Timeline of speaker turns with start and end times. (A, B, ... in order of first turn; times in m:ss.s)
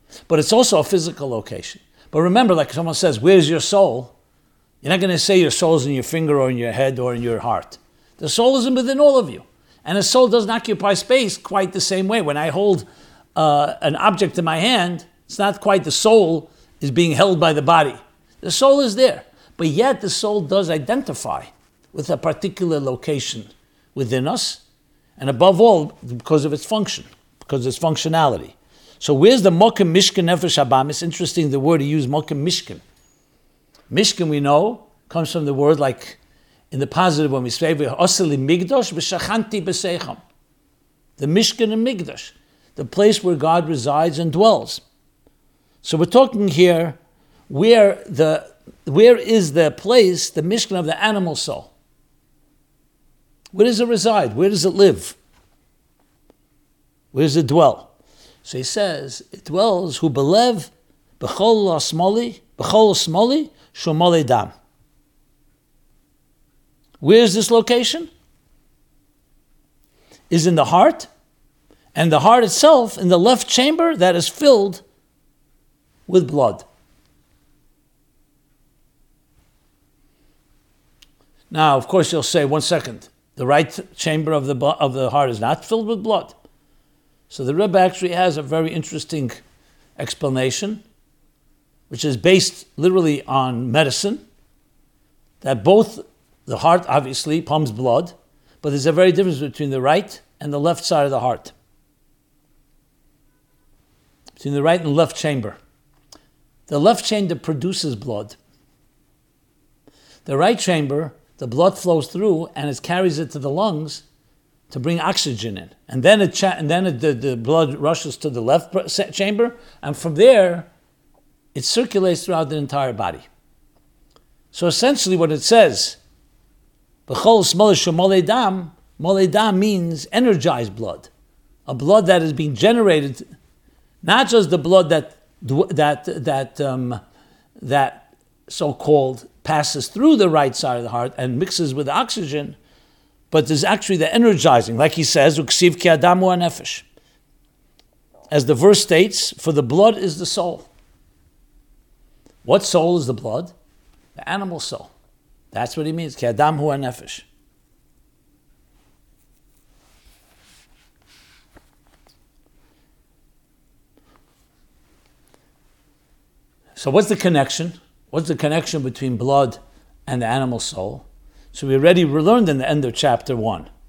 0:00.3-0:04.1 A
0:04.8-0:24.6 A
0:25.2-0:32.8 A
0:33.9-0:36.2 A
0:36.7-0:40.2 A
0:41.2-0:44.8 A
0:45.8-0:47.0 A
0:47.5-0:51.7 A
0:53.5-0:55.2 A
0:57.1-0:57.9 A
0:58.4-1:04.5 A
1:07.0-1:08.1 A
1:10.3-1:11.1 A
1:11.9-1:14.8 A
1:16.1-1:16.6 A
1:21.5-1:26.4 A
1:27.3-1:29.4 A
1:30.0-1:30.8 A
1:31.9-1:34.2 A
1:35.4-1:41.5 A
1:44.4-1:45.6 A
1:46.7-1:48.4 A
1:50.2-1:54.0 A
1:54.7-2:00.7 A
2:01.5-2:03.2 A
2:04.5-2:06.0 A
2:07.1-2:11.1 A
2:11.6-2:13.2 A
2:14.0-2:17.0 A
2:17.6-2:22.6 A
2:23.3-2:26.8 A
2:28.3-2:30.7 A
2:32.4-2:33.5 A
2:34.1-2:34.9 A
2:35.5-2:37.2 A
2:46.8-2:53.7 A